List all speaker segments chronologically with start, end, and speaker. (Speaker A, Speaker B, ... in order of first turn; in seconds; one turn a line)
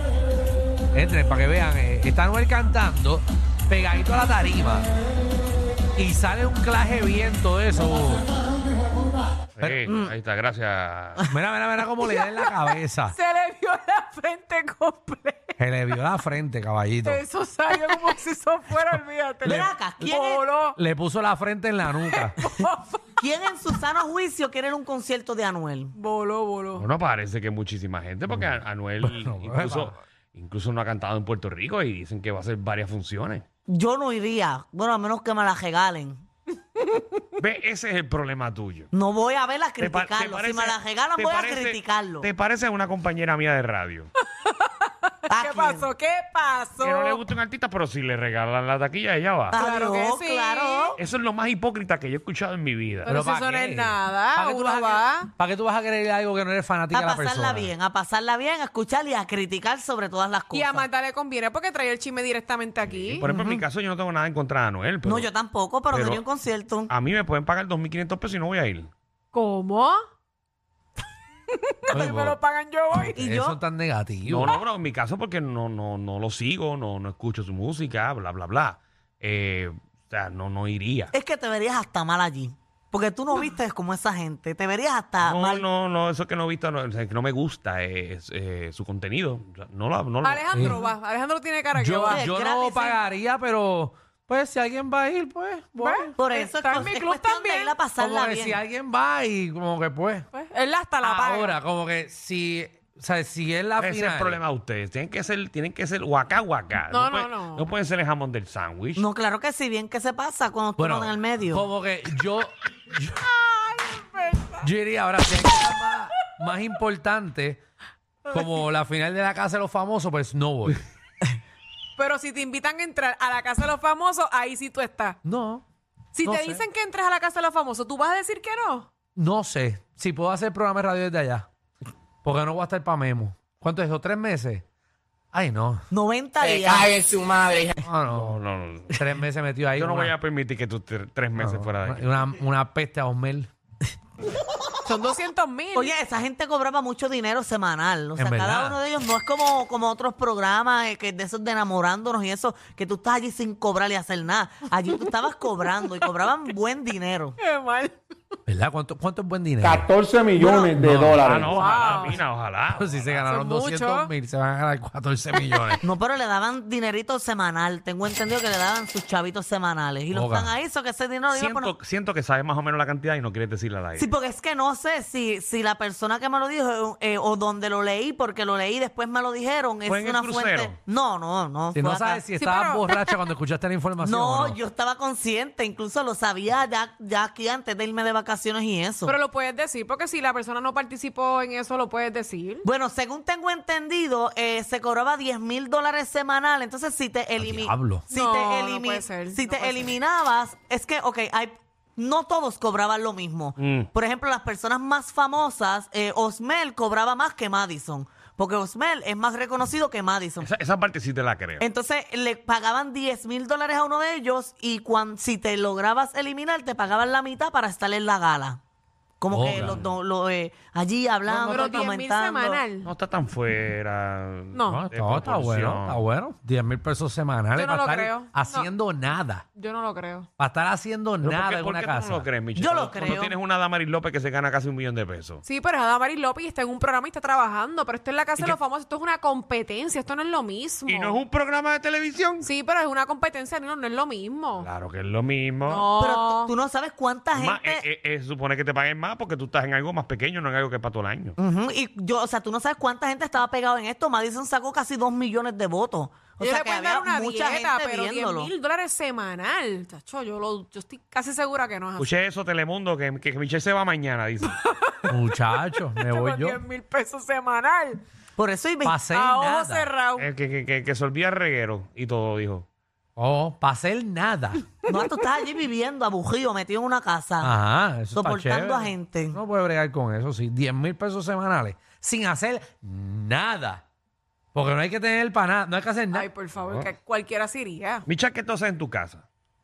Speaker A: 0.9-4.9
Speaker A: 6.0-8.3
Speaker B: 9.6-11.2
Speaker A: 9.6-9.9
Speaker C: 9.9-10.1
Speaker A: 11.3-13.2
Speaker D: 13.1-15.6
Speaker A: 15.6-17.2
Speaker D: 17.0-20.8
Speaker C: 19.4-20.5
Speaker A: 20.8-22.5
Speaker D: 22.0-23.0
Speaker C: 23.2-25.9
Speaker D: 25.9-26.9
Speaker B: 26.8-33.5
Speaker A: 28.3-29.9
Speaker C: 33.7-36.2
Speaker D: 36.8-37.2
Speaker B: 37.4-38.9
Speaker C: 38.9-42.3
Speaker B: 39.8-44.1
Speaker D: 44.4-47.2
Speaker C: 45.3-45.9
Speaker B: 46.8-49.6
Speaker C: 49.5-51.0
Speaker D: 49.5-51.0
Speaker B: 51.0-53.2
Speaker D: 53.1-55.3
Speaker A: 53.1-57.7
Speaker C: 56.9-60.9
Speaker D: 60.5-63.2
Speaker B: 62.8-65.3
Speaker C: 63.2-63.6
Speaker C: 65.0-66.9
Speaker B: 65.9-66.2
Speaker B: 66.9-68.9
Speaker D: 69.3-70.0
Speaker D: 71.5-73.2
Speaker A: 71.9-72.4
Speaker A: 73.0-74.5
Speaker C: 73.2-73.6
Speaker B: 74.3-81.1
Speaker C: 81.1-85.6
Speaker B: 85.2-90.8
Speaker D: 90.2-92.2
Speaker A: 90.5-90.8
Speaker A: 91.8-96.1
Speaker C: 92.1-93.0
Speaker D: 95.8-97.8
Speaker C: 96.2-98.6
Speaker A: 98.0-100.3
Speaker D: 100.3-101.6
Speaker A: 101.0-104.4
Speaker B: 103.8-109.0
Speaker D: 106.9-107.7
Speaker C: 109.0-111.7
Speaker A: 110.8-113.3
Speaker D: 114.0-114.7
Speaker A: 114.6-117.6
Speaker D: 118.3-118.5
Speaker A: 118.3-120.8
Speaker D: 122.0-125.2
Speaker A: 125.2-125.6
Speaker D: 126.1-128.9
Speaker A: 126.2-126.6
Speaker A: 129.2-131.5
Speaker A: 132.2-134.6
Speaker A: 135.3-135.8
Speaker C: 135.9-136.9
Speaker E: 136.4-137.8
Speaker A: 137.8-138.3
Speaker B: 138.1-139.0
Speaker A: 138.9-140.1
Speaker B: 139.8-142.1
Speaker A: 141.4-143.5
Speaker D: 144.9-145.9
Speaker C: 145.7-157.4
Speaker A: 148.2-148.8
Speaker D: 157.4-158.0
Speaker A: 158.5-159.9
Speaker E: 159.6-161.4
Speaker D: 160.4-160.7
Speaker A: 160.7-161.6
Speaker B: 161.2-163.3
Speaker D: 161.3-162.2
Speaker A: 162.8-165.8
Speaker D: 163.3-164.1
Speaker B: 165.3-165.8
Speaker C: 165.8-171.7
Speaker A: 170.1-170.5
Speaker B: 171.3-174.1
Speaker C: 174.0-182.2
Speaker B: 179.9-180.8
Speaker A: 181.7-184.6
Speaker D: 182.4-183.2
Speaker C: 184.0-189.2
Speaker D: 189.1-192.7
Speaker C: 192.6-210.5
Speaker A: 197.4-198.1
Speaker D: 198.1-199.9
Speaker B: 203.6-203.9
Speaker B: 210.4-211.7
Speaker C: 211.6-218.6
Speaker C: 219.2-222.6
Speaker A: 219.3-219.8
Speaker B: 219.4-219.8
Speaker D: 221.3-222.9
Speaker B: 222.8-226.0
Speaker D: 224.6-224.8
Speaker A: 224.7-229.5
Speaker D: 227.6-228.7
Speaker D: 229.6-230.3
Speaker A: 230.4-232.3
Speaker B: 231.2-235.4
Speaker C: 232.6-233.4
Speaker D: 235.4-241.2
Speaker B: 240.9-242.5
Speaker D: 242.4-244.7
Speaker B: 244.6-245.9
Speaker D: 245.7-246.5
Speaker C: 246.0-247.8
Speaker B: 247.3-251.4
Speaker C: 251.4-258.5
Speaker D: 256.4-262.1
Speaker B: 262.0-264.6
Speaker D: 264.5-265.4
Speaker A: 265.1-266.6
Speaker D: 266.0-268.0
Speaker C: 268.4-269.0
Speaker A: 268.9-269.9
Speaker D: 269.1-270.3
Speaker B: 270.2-272.6
Speaker A: 273.2-274.6
Speaker C: 274.9-277.5
Speaker A: 277.4-283.8
Speaker C: 278.1-279.4
Speaker A: 284.5-286.3
Speaker D: 286.1-288.1
Speaker B: 286.6-286.9
Speaker B: 288.1-289.2